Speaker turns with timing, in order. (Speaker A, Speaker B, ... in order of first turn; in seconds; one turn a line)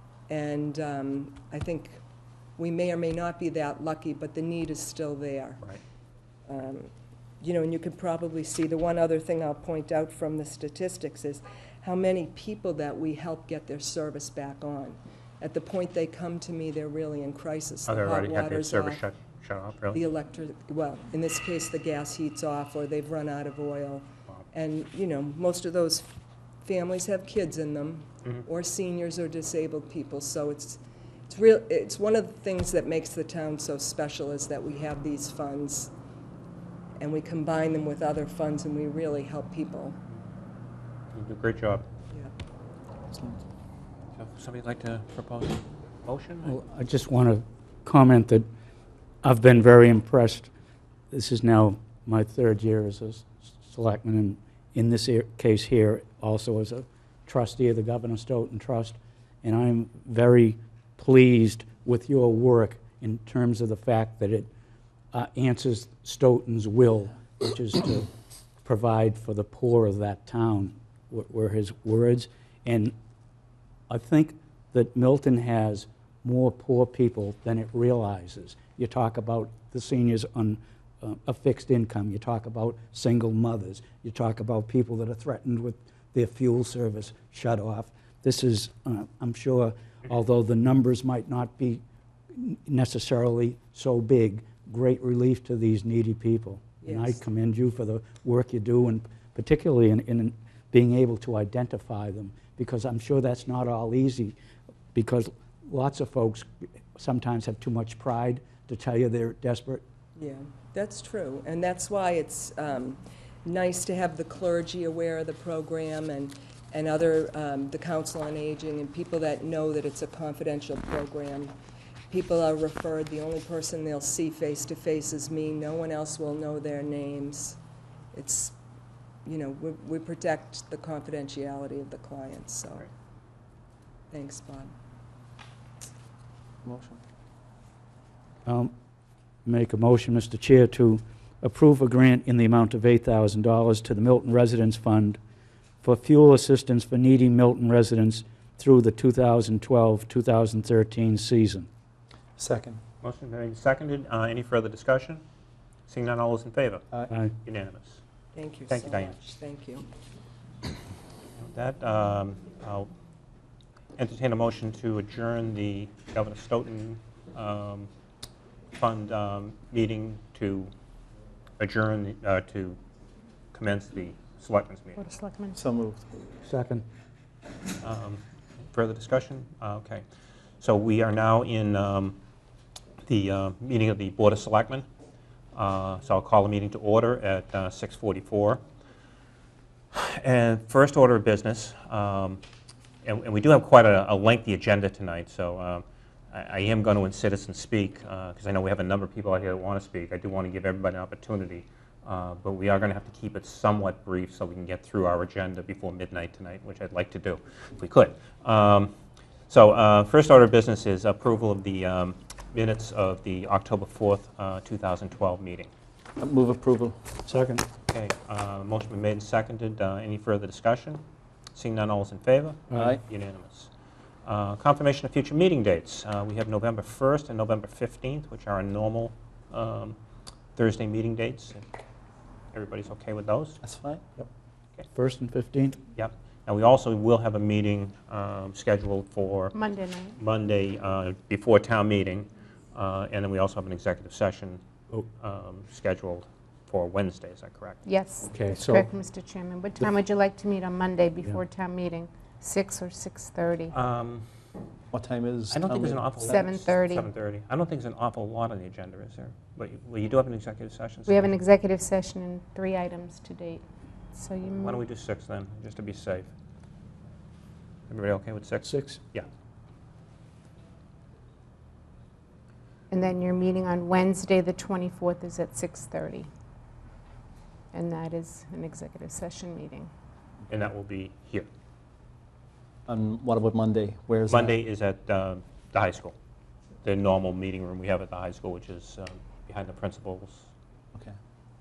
Speaker A: 0.3-2.0
Speaker A: 2.6-5.6
Speaker A: 6.5-19.0
Speaker B: 17.9-20.0
Speaker A: 19.9-26.1
Speaker A: 26.6-35.9
Speaker A: 37.0-40.0
Speaker B: 41.1-41.8
Speaker C: 43.1-43.4
Speaker B: 44.1-46.5
Speaker D: 46.4-48.5
Speaker D: 49.2-50.5
Speaker D: 51.1-64.5
Speaker D: 65.1-68.1
Speaker D: 68.6-72.9
Speaker D: 73.9-91.8
Speaker D: 92.3-104.3
Speaker A: 96.8-97.2
Speaker D: 104.9-109.8
Speaker A: 110.2-121.5
Speaker A: 122.1-127.6
Speaker A: 128.1-128.6
Speaker A: 129.2-132.9
Speaker A: 134.1-134.7
Speaker C: 136.6-137.0
Speaker D: 138.4-138.7
Speaker D: 139.4-145.2
Speaker D: 145.8-151.7
Speaker C: 152.4-152.8
Speaker B: 153.0-155.2
Speaker B: 155.9-156.8
Speaker B: 157.4-158.0
Speaker A: 158.3-159.9
Speaker B: 158.7-159.1
Speaker B: 161.4-162.9
Speaker B: 164.0-167.9
Speaker B: 168.8-170.7
Speaker B: 171.6-172.8
Speaker B: 173.5-175.0
Speaker E: 175.0-175.6
Speaker C: 175.5-176.2
Speaker D: 176.4-176.8
Speaker B: 177.8-180.0
Speaker B: 180.6-182.2
Speaker B: 183.0-184.8
Speaker B: 185.5-188.6
Speaker B: 189.9-192.4
Speaker B: 193.0-208.9
Speaker B: 209.5-215.7
Speaker C: 216.2-217.0
Speaker D: 217.2-217.6
Speaker B: 217.9-221.0
Speaker B: 221.5-223.7
Speaker C: 222.7-223.0
Speaker B: 224.2-229.9
Speaker B: 230.6-231.7
Speaker B: 232.5-233.6
Speaker C: 233.6-234.0
Speaker D: 234.9-235.8
Speaker B: 235.9-239.6
Speaker E: 239.5-240.2
Speaker B: 240.2-247.8
Speaker E: 247.8-253.7
Speaker D: 248.2-248.9
Speaker B: 253.7-254.2
Speaker C: 254.9-256.6
Speaker B: 255.5-261.4
Speaker E: 256.3-257.1
Speaker E: 261.1-264.8
Speaker B: 264.5-266.3
Speaker B: 267.9-269.3
Speaker D: 268.6-269.0
Speaker E: 272.9-276.3
Speaker E: 277.7-279.9
Speaker B: 280.5-281.5
Speaker C: 282.9-284.6
Speaker B: 284.3-286.1
Speaker B: 286.8-290.5